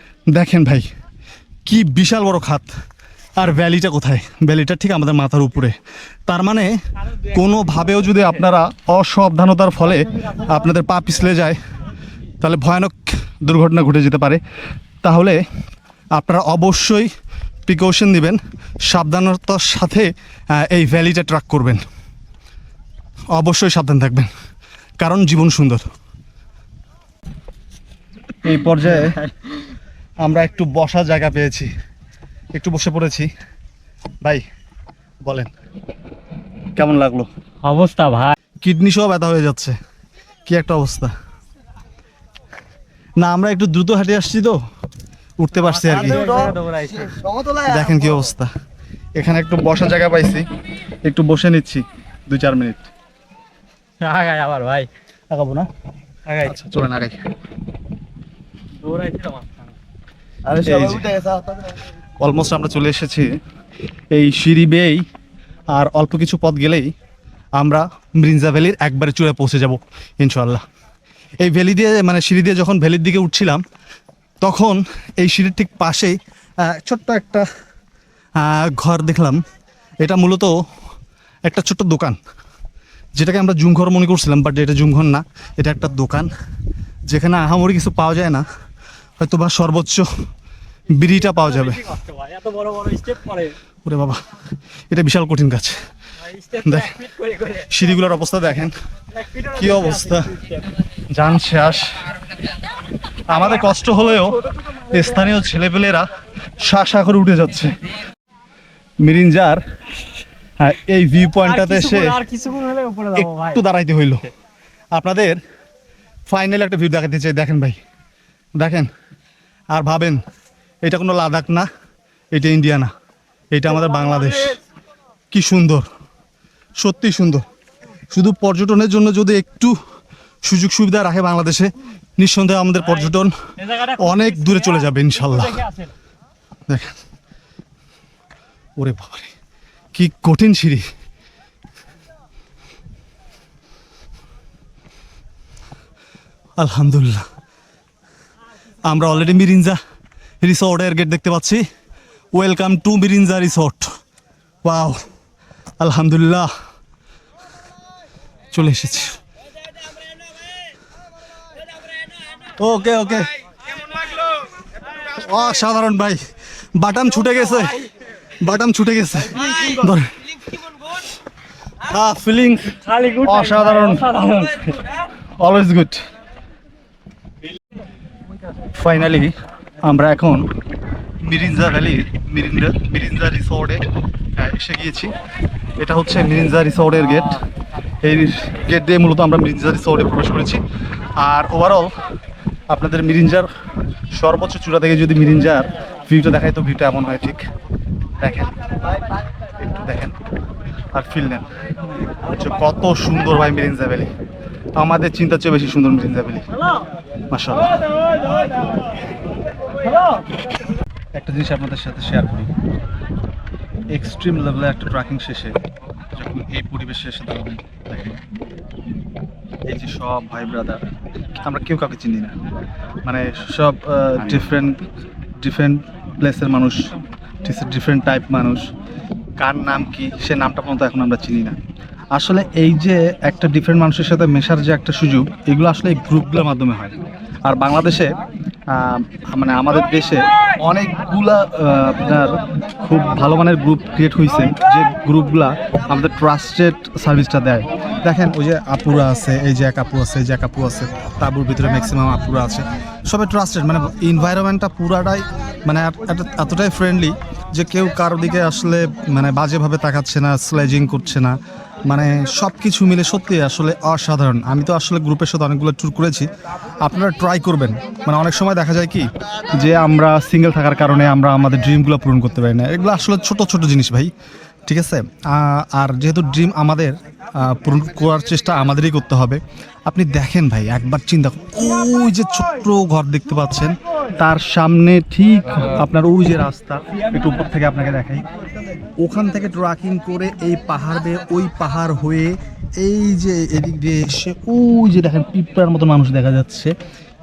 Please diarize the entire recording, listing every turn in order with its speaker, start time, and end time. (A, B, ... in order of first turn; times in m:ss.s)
0:00.3-0:00.9 A
0:01.6-0:02.7 A
0:03.4-0:05.8 A
0:06.3-0:11.6 A
0:12.4-0:14.4 A
0:15.0-0:15.4 A
0:16.1-0:17.1 A
0:17.7-0:21.8 A
0:23.4-0:24.3 A
0:25.0-0:25.8 A
0:28.4-0:29.2 A
0:29.0-0:29.3 B
0:30.2-0:31.7 A
0:32.6-0:33.3 A
0:35.2-0:35.5 A
0:36.8-0:37.3 A
0:37.6-0:38.4 B
0:38.6-0:39.8 A
0:40.5-0:41.1 A
0:43.2-0:44.6 A
0:45.4-0:46.5 A
0:45.8-0:47.6 B
0:47.6-0:48.5 A
0:49.2-0:50.4 A
0:51.1-0:52.9 A
0:54.0-0:54.9 B
0:55.3-0:55.7 A
0:56.3-0:57.2 A
0:58.8-0:59.7 B
1:00.5-1:01.3 A
1:00.8-1:01.3 B
1:02.2-1:03.3 A
1:04.1-1:05.0 A
1:05.7-1:06.9 A
1:07.6-1:10.6 A
1:11.4-1:13.6 A
1:14.4-1:17.5 A
1:18.4-1:19.4 A
1:20.0-1:20.6 A
1:21.5-1:22.2 A
1:23.2-1:26.3 A
1:27.1-1:28.5 A
1:29.2-1:30.1 A
1:31.0-1:32.0 A
1:32.0-1:33.5 B
1:33.8-1:34.2 A
1:34.9-1:35.8 A
1:36.5-1:38.7 A
1:36.5-1:37.6 B
1:39.4-1:40.6 A
1:41.1-1:42.0 A
1:43.3-1:46.1 A
1:46.6-1:47.8 A
1:49.0-1:49.6 A
1:50.6-1:52.2 A
1:51.6-1:53.3 B
1:53.1-1:54.3 A
1:54.9-1:55.4 A
1:56.3-1:57.8 A
1:58.6-1:58.9 A
1:59.7-2:00.2 A
2:00.8-2:01.7 A
2:02.3-2:02.9 A
2:03.5-2:04.6 A
2:05.3-2:05.9 A
2:06.8-2:07.4 A
2:08.1-2:09.8 A
2:10.4-2:15.7 A
2:16.7-2:17.0 A
2:18.8-2:19.3 A
2:19.9-2:20.8 A
2:26.6-2:27.3 A
2:28.8-2:29.8 A
2:30.4-2:31.6 A
2:32.3-2:33.9 A
2:34.6-2:35.0 A
2:35.8-2:36.5 A
2:38.5-2:39.2 A
2:42.6-2:43.3 A
2:45.0-2:46.2 A
2:46.8-2:47.8 A
2:48.4-2:50.2 A
2:51.9-2:54.4 A
2:53.0-2:54.8 B
2:55.4-2:56.0 A
2:58.7-3:00.5 A
3:01.2-3:03.8 A
3:04.4-3:05.1 A
3:05.8-3:07.4 A
3:08.0-3:10.6 A
3:11.2-3:11.9 A
3:12.7-3:13.5 A
3:14.1-3:17.4 A
3:18.2-3:18.6 A
3:19.6-3:20.2 A
3:20.9-3:21.5 A
3:22.3-3:24.1 A
3:24.8-3:26.5 A
3:27.3-3:27.8 A
3:31.2-3:32.5 A
3:33.9-3:35.6 A
3:36.2-3:38.2 A
3:39.7-3:40.8 A
3:41.4-3:42.4 A
3:43.0-3:44.8 A
3:45.4-3:46.8 A
3:47.4-3:48.6 A
3:49.4-3:51.6 A
3:52.1-3:57.0 A
3:57.5-3:58.1 A
3:58.7-4:21.4 A
4:21.9-4:26.3 A
4:26.8-4:34.1 A
4:34.7-4:48.2 A
4:49.0-4:56.7 A